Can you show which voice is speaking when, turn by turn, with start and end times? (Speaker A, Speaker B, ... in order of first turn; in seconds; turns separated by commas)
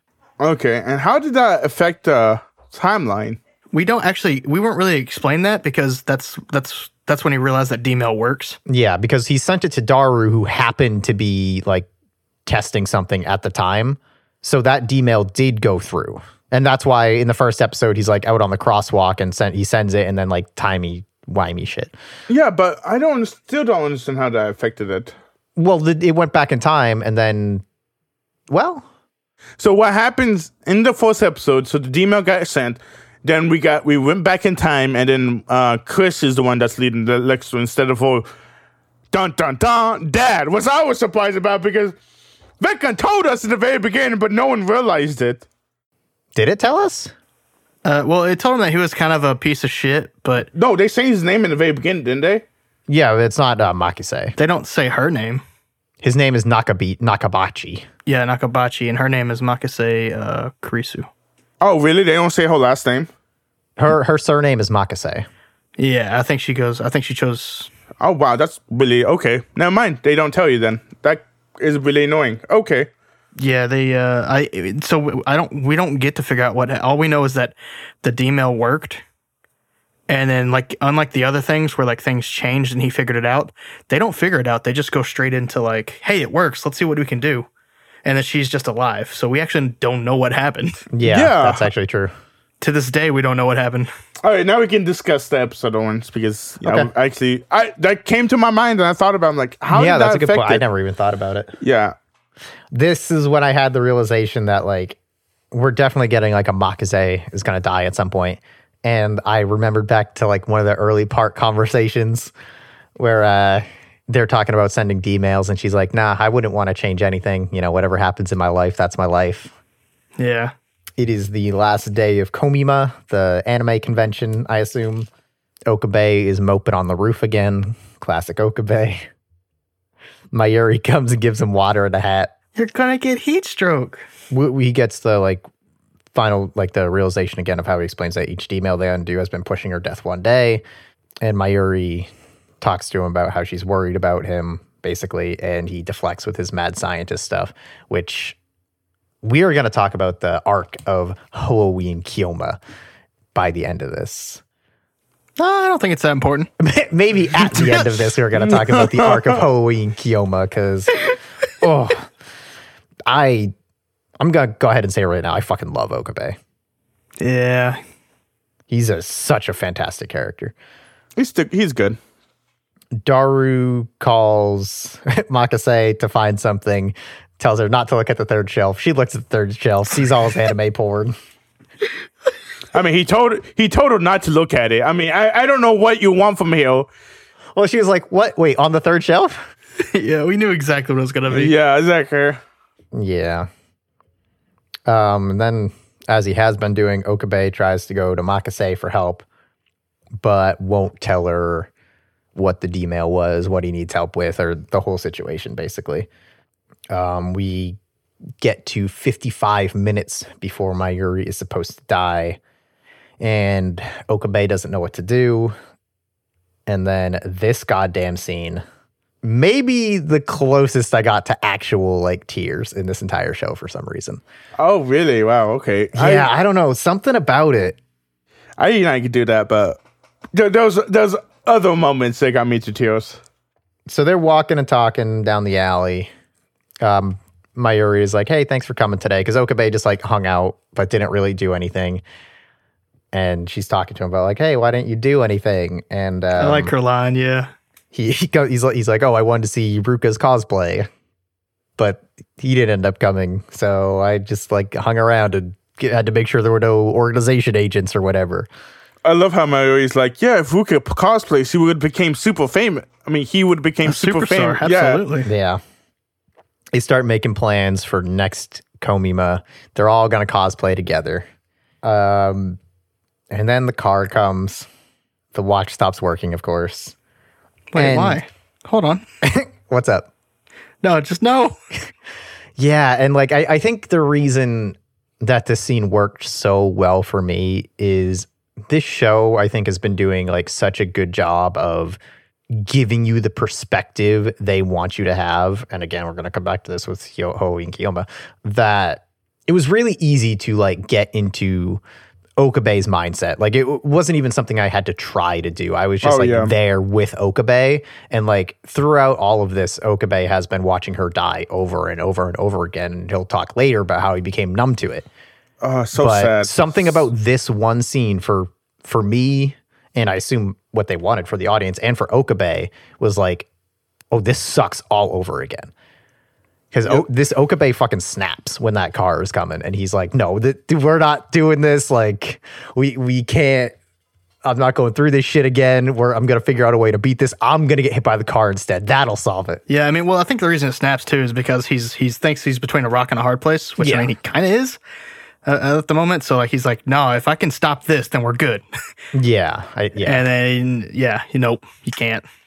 Speaker A: 0.4-3.4, Speaker B: 3.7-8.6, Speaker C: 8.7-11.9, Speaker C: 12.5-21.9, Speaker A: 22.3-25.1, Speaker C: 25.6-27.6, Speaker C: 28.5-28.9, Speaker A: 29.6-38.3, Speaker A: 39.1-42.0, Speaker A: 42.6-45.5, Speaker C: 46.4-47.1, Speaker B: 47.9-50.5, Speaker A: 50.5-52.5, Speaker C: 52.9-54.4, Speaker B: 54.4-55.4, Speaker C: 56.0-57.9, Speaker B: 58.1-61.1, Speaker A: 61.6-63.1, Speaker C: 63.8-65.3, Speaker B: 65.8-67.7, Speaker A: 68.0-72.9, Speaker B: 73.4-79.0, Speaker B: 80.1-87.5, Speaker B: 88.0-90.9, Speaker C: 90.9-92.1, Speaker A: 91.0-91.7, Speaker B: 92.6-93.9, Speaker A: 94.2-100.7, Speaker C: 96.6-96.9, Speaker C: 99.7-101.6, Speaker A: 101.6-102.0, Speaker C: 102.7-105.0, Speaker C: 105.5-112.3, Speaker C: 113.0-119.5, Speaker B: 120.2-120.5, Speaker C: 121.0-125.1, Speaker C: 125.7-129.1, Speaker C: 130.3-132.3, Speaker B: 132.6-134.1, Speaker C: 134.3-135.4, Speaker C: 136.1-140.6, Speaker C: 141.2-142.1, Speaker C: 142.6-148.4, Speaker C: 149.2-152.6, Speaker C: 153.3-154.4, Speaker B: 155.4-156.5, Speaker C: 156.6-161.0, Speaker B: 157.4-158.2, Speaker A: 158.5-159.4, Speaker C: 161.6-162.1, Speaker C: 163.1-163.5, Speaker C: 164.2-166.4, Speaker B: 167.2-167.8, Speaker C: 168.7-170.6, Speaker A: 171.2-172.0, Speaker C: 173.0-181.2, Speaker A: 182.7-186.9, Speaker C: 187.6-189.4, Speaker B: 189.8-191.5, Speaker A: 191.3-192.4, Speaker C: 192.9-193.5, Speaker C: 194.9-199.2, Speaker C: 200.2-201.7, Speaker C: 202.3-206.1, Speaker C: 206.9-207.8, Speaker C: 208.4-212.4, Speaker C: 213.2-215.6, Speaker C: 216.7-218.6, Speaker C: 219.2-224.2, Speaker A: 224.6-226.3, Speaker C: 225.9-227.8, Speaker A: 228.6-229.8, Speaker A: 230.3-233.2, Speaker C: 233.9-236.1, Speaker C: 236.8-242.0, Speaker C: 243.1-246.7, Speaker B: 246.4-247.5, Speaker C: 247.9-250.9, Speaker C: 251.8-258.5, Speaker A: 259.0-265.0, Speaker B: 263.9-265.3, Speaker C: 265.2-265.6, Speaker C: 266.7-271.3, Speaker C: 271.8-272.6, Speaker C: 273.3-274.7, Speaker C: 275.3-276.9, Speaker B: 277.7-279.0, Speaker C: 277.8-278.2, Speaker C: 279.2-280.1, Speaker B: 280.8-281.6, Speaker C: 282.6-292.0, Speaker C: 292.5-301.8, Speaker C: 302.4-315.1, Speaker A: 306.0-306.5, Speaker A: 315.6-317.1, Speaker C: 316.0-323.5, Speaker C: 324.1-325.7, Speaker C: 326.7-333.8, Speaker C: 334.4-339.6, Speaker B: 339.7-344.8, Speaker C: 343.8-344.1, Speaker B: 345.4-348.6, Speaker C: 349.1-350.2, Speaker B: 350.0-352.2